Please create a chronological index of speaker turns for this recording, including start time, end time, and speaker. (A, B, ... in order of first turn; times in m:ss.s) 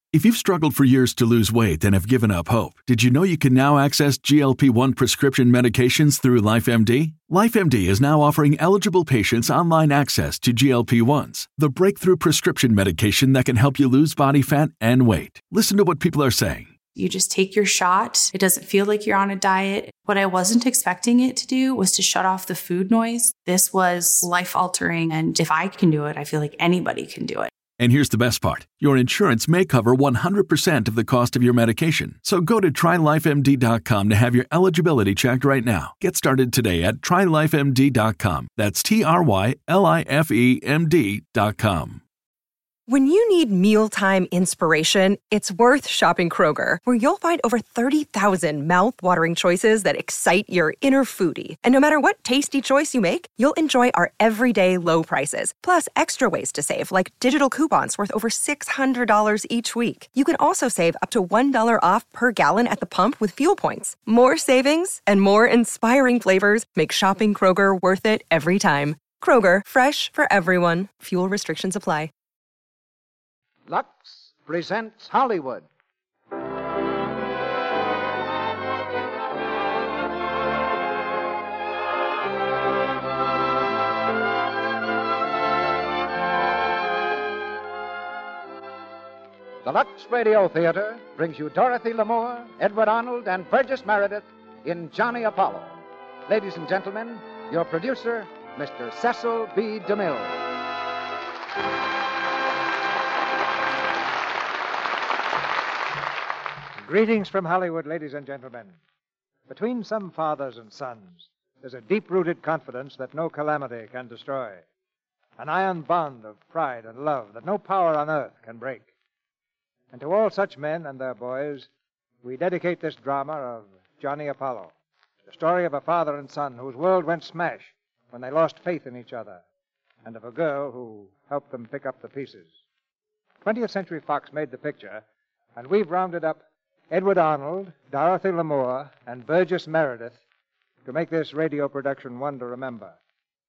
0:00.1-0:16.7 A
0:17.0-0:27.5 B
0:27.8-0:42.0 A
0:42.9-1:12.1 C
1:13.7-1:15.6 D
1:29.6-1:40.4 D
1:46.8-1:48.8 E
1:49.5-1:54.6 E
1:55.4-1:58.9 E
1:59.9-2:01.7 E
2:02.2-2:04.7 E
2:05.3-2:09.4 E
2:10.0-2:12.5 E
2:13.4-2:15.0 E
2:15.6-2:20.2 E
2:20.8-2:23.0 E